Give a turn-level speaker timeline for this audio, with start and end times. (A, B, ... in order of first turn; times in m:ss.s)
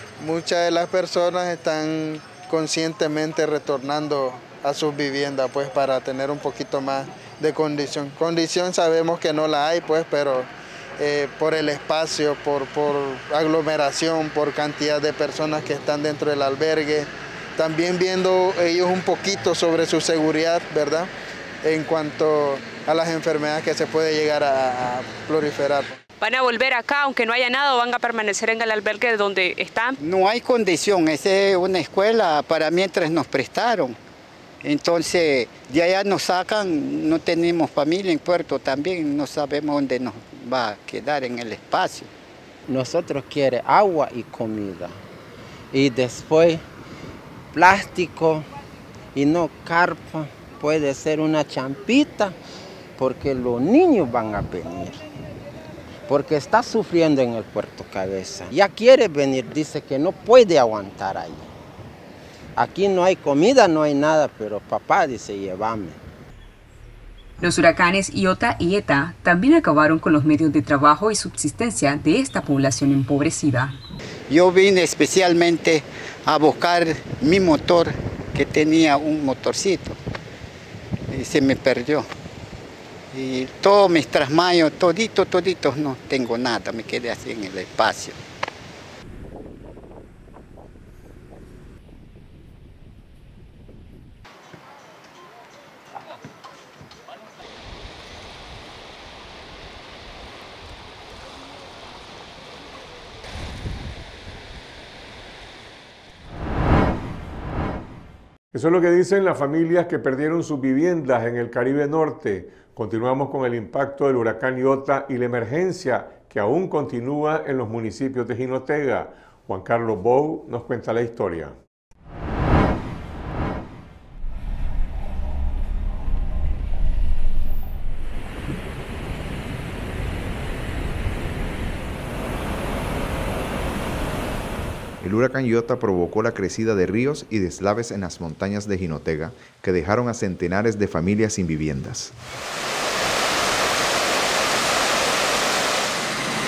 0:00.2-0:21.1 A
0:21.6-0:25.9 A
0:26.2-0:28.4 B
0:30.0-0:34.0 C
0:34.6-0:42.1 C
0:42.7-0:45.0 D
0:45.7-0:46.6 D
0:47.5-0:48.4 D
0:49.1-0:52.4 D
0:53.0-0:55.0 D
0:56.1-1:01.5 D
1:02.6-1:06.0 D
1:07.4-1:13.8 E
1:14.3-1:20.0 C
1:21.1-1:22.1 C
1:23.1-1:28.2 C
1:48.5-2:01.5 F
2:15.0-2:22.1 G